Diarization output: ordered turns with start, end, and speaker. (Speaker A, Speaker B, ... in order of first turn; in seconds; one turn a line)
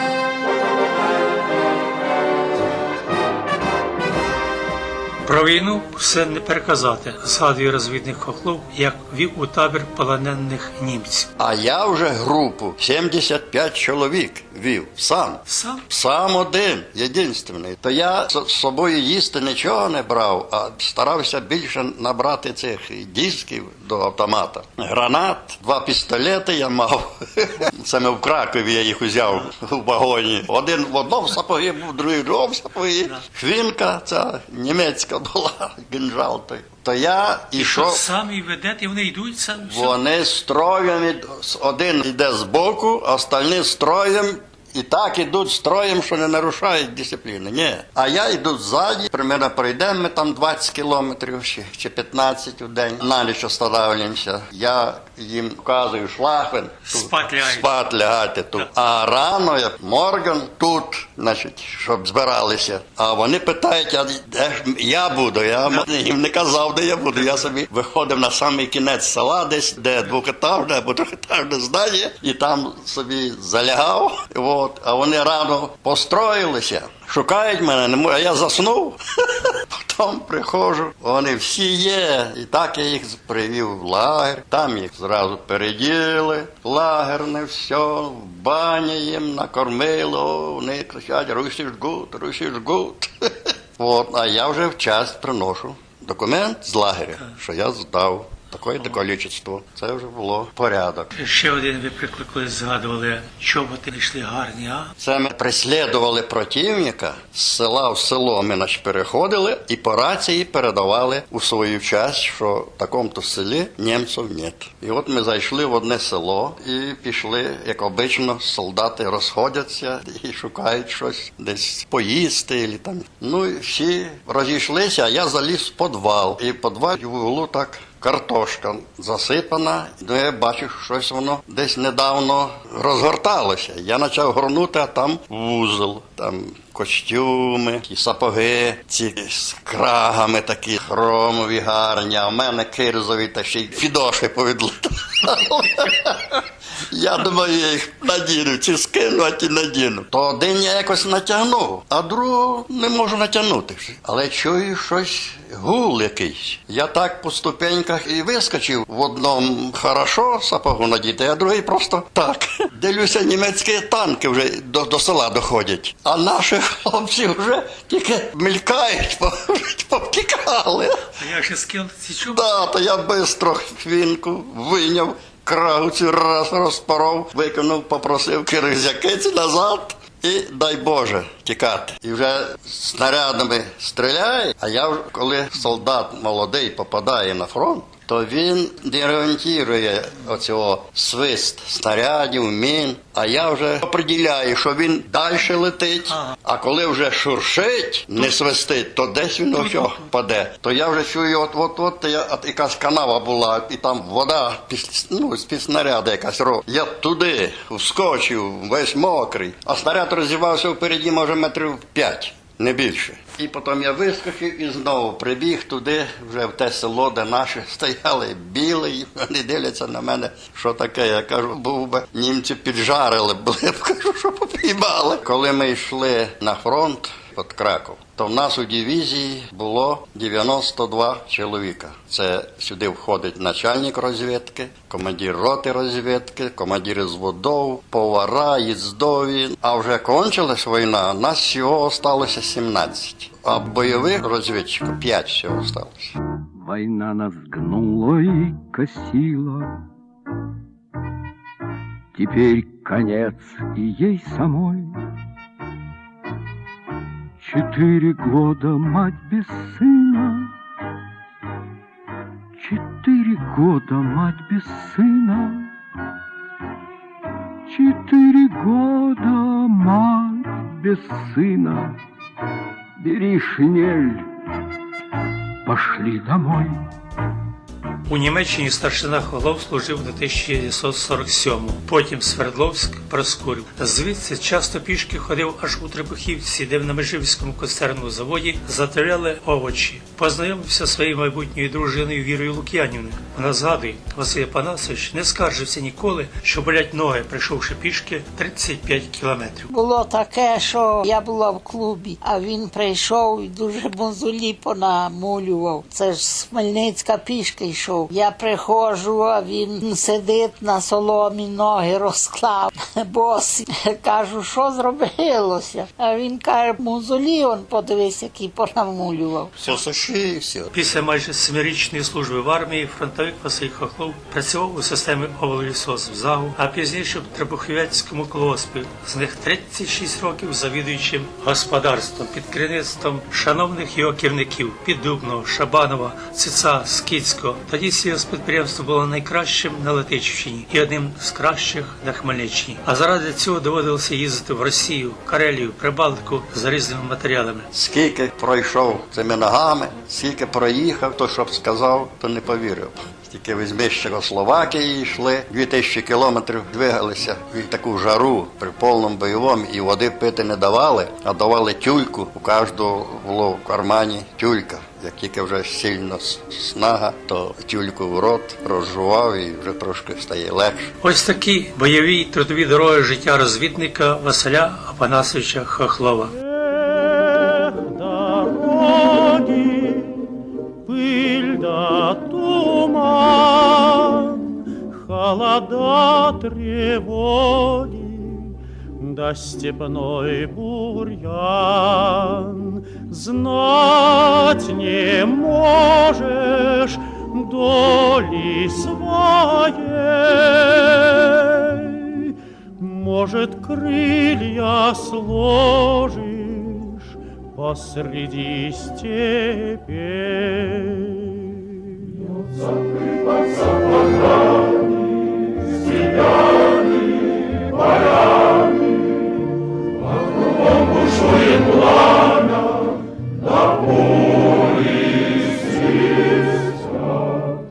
Speaker A: 5.2-11.3
Speaker B: 11.4-38.0
Speaker A: 15.5-15.8
Speaker A: 37.6-40.0
Speaker B: 39.6-101.1
Speaker A: 56.9-57.8
Speaker A: 67.2-67.5
Speaker A: 101.1-104.9
Speaker B: 105.0-171.1
Speaker A: 171.2-172.6
Speaker B: 172.2-246.1
Speaker A: 199.6-200.0
Speaker C: 246.6-249.8
Speaker C: 252.1-255.0
Speaker C: 257.4-260.5
Speaker C: 262.6-265.7
Speaker C: 267.7-272.0
Speaker C: 273.0-274.3
Speaker C: 275.6-276.8
Speaker A: 278.1-299.7
Speaker D: 299.7-319.5
Speaker B: 319.6-320.7
Speaker A: 320.7-347.7
Speaker B: 347.7-370.9
Speaker A: 371.0-376.3
Speaker E: 376.3-380.3
Speaker E: 380.9-412.7